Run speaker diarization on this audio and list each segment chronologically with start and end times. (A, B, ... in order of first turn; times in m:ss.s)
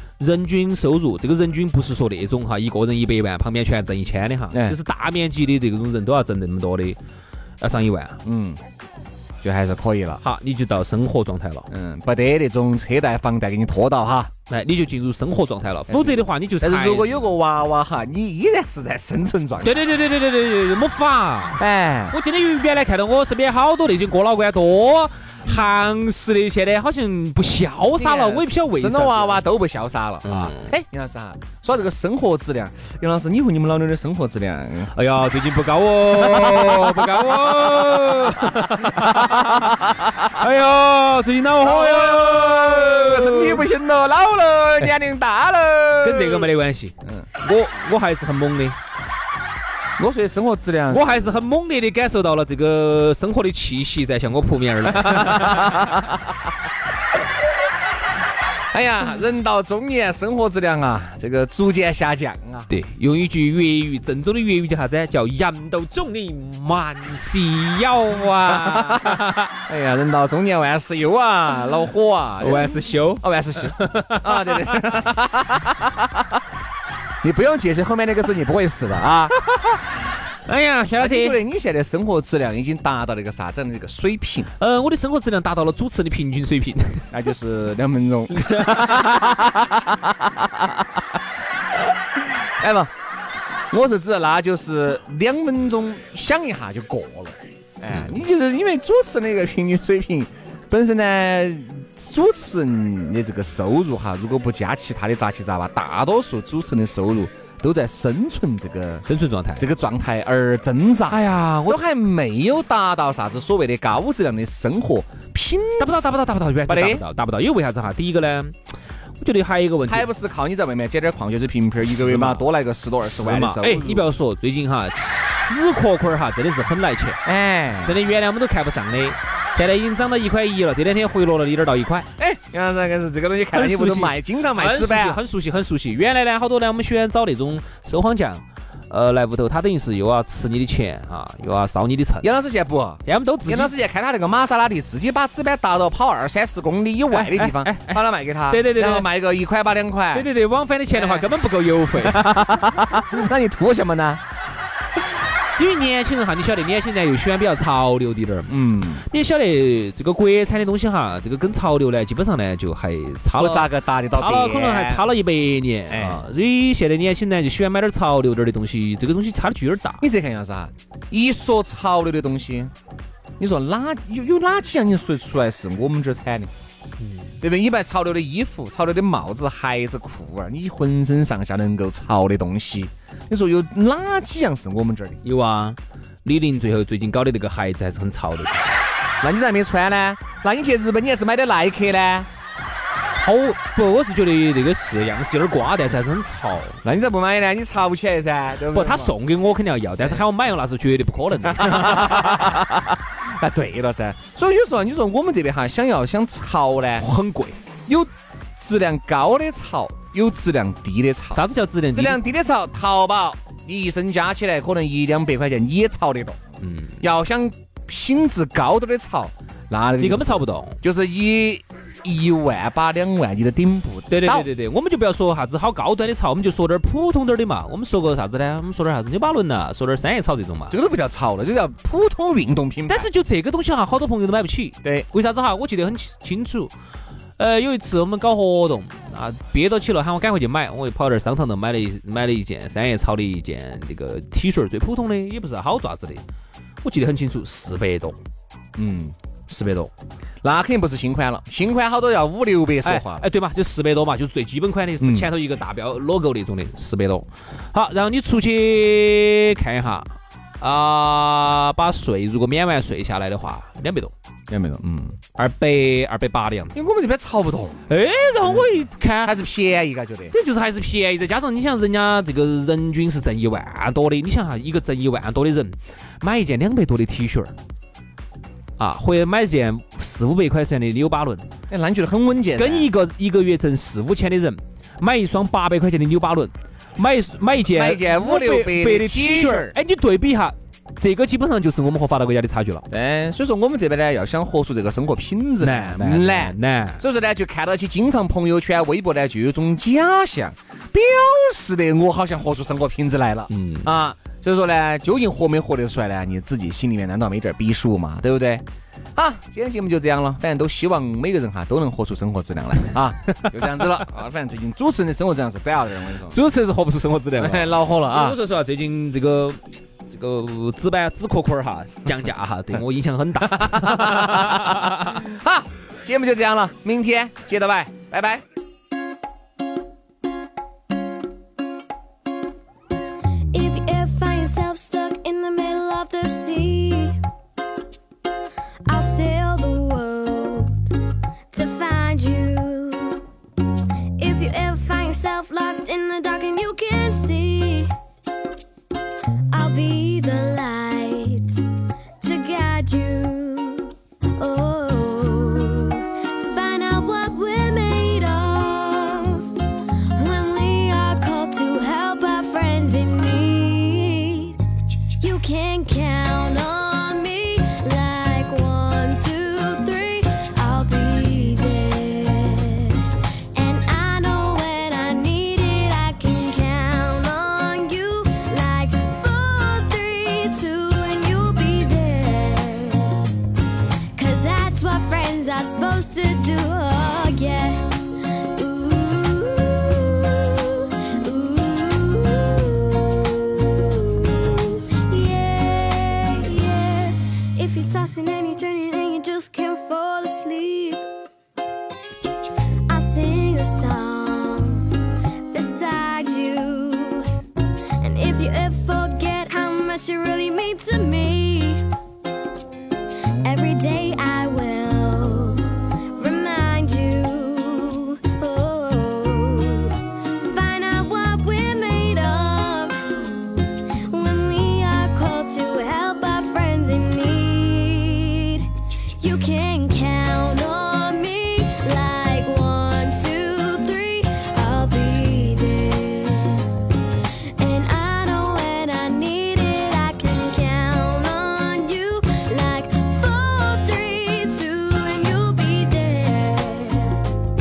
0:00.2-0:07.0 A
0:04.5-0:04.8 B
0:07.6-0:08.2 A
0:08.2-0:08.6 B
0:09.4-0:10.2 B
0:10.2-0:11.7 A
0:11.7-0:14.3 B
0:14.5-0:17.3 A
0:15.9-0:19.8 B
0:19.6-0:29.4 A
0:21.6-0:22.2 B
0:28.0-0:34.9 B
0:30.3-0:30.6 A
0:34.9-0:43.7 A
0:36.2-0:37.2 B
0:41.6-0:46.5 B
0:46.0-0:48.8 A
0:50.0-0:51.1 B
0:50.9-0:56.0 A
0:55.0-0:56.0 B
0:58.7-1:02.7 B
1:02.7-1:09.5 A
1:08.6-1:09.1 B
1:09.7-1:16.1 B
1:12.4-1:14.7 A
1:17.2-1:19.3 B
1:19.4-1:19.8 A
1:20.4-1:21.4 A
1:21.0-1:24.5 B
1:24.6-1:27.0 A
1:27.1-1:30.3 B
1:28.4-1:29.3 A
1:32.6-1:32.9 B
1:33.7-1:49.0 B
1:37.9-1:38.2 A
1:49.0-1:49.6 A
1:49.6-1:56.1 B
1:51.1-1:51.8 A
1:55.8-1:58.5 A
1:56.6-1:57.0 B
1:59.2-2:00.1 A
1:59.9-2:04.0 B
2:01.8-2:02.5 A
2:03.0-2:07.2 A
2:07.2-2:08.0 B
2:07.8-2:12.1 A
2:12.2-2:15.2 B
2:13.5-2:22.3 A
2:22.2-2:30.3 B
2:23.0-2:23.7 A
2:27.1-2:29.1 A
2:30.1-2:32.6 A
2:30.9-2:31.2 B
2:32.0-2:34.2 B
2:35.6-2:38.5 A
2:38.5-2:39.0 B
2:39.0-2:50.0 A
2:43.3-2:45.0 B
2:45.9-2:46.2 B
2:50.0-2:52.7 B
2:53.4-2:56.5 B
2:57.4-3:05.2 B
3:05.2-3:08.7 A
3:09.2-3:12.3 B
3:13.2-3:16.8 A
3:16.8-3:19.1 B
3:18.7-3:22.4 A
3:21.4-3:27.0 B
3:27.0-3:27.6 A
3:27.8-3:36.4 B
3:31.3-3:32.2 A
3:36.6-3:37.0 A
3:37.0-3:44.5 B
3:40.0-3:40.8 A
3:44.1-3:50.8 A
3:50.7-3:53.1 B
3:52.9-3:56.7 A
3:57.4-4:06.2 A
4:06.8-4:08.2 A
4:08.8-4:09.1 B
4:09.5-4:09.9 A
4:10.4-4:13.2 B
4:12.8-4:24.1 A
4:15.0-4:15.3 B
4:24.5-4:25.2 B
4:25.3-4:26.8 A
4:26.7-4:27.8 B
4:27.9-4:29.4 A
4:29.2-4:30.3 B
4:30.3-4:37.5 A
4:38.8-4:41.4 A
4:41.7-4:42.9 B
4:42.6-4:52.8 A
4:47.6-4:49.7 B
4:52.9-5:08.6 B
4:55.6-4:57.0 A
5:03.5-5:03.9 A
5:09.2-5:16.4 B
5:13.4-5:13.9 A
5:16.3-5:19.6 A
5:17.4-5:18.4 B
5:20.1-5:25.2 A
5:23.5-5:28.4 B
5:33.5-5:37.2 C
5:38.9-5:40.9 C
5:41.5-5:43.2 C
5:44.2-5:47.9 C
5:49.5-5:51.6 C
5:52.2-6:23.4 C
6:24.1-6:41.0 C
6:42.9-6:44.9 C
6:45.5-6:47.3 C
6:48.0-6:51.8 C
6:53.4-7:16.8 C
7:17.5-7:27.3 C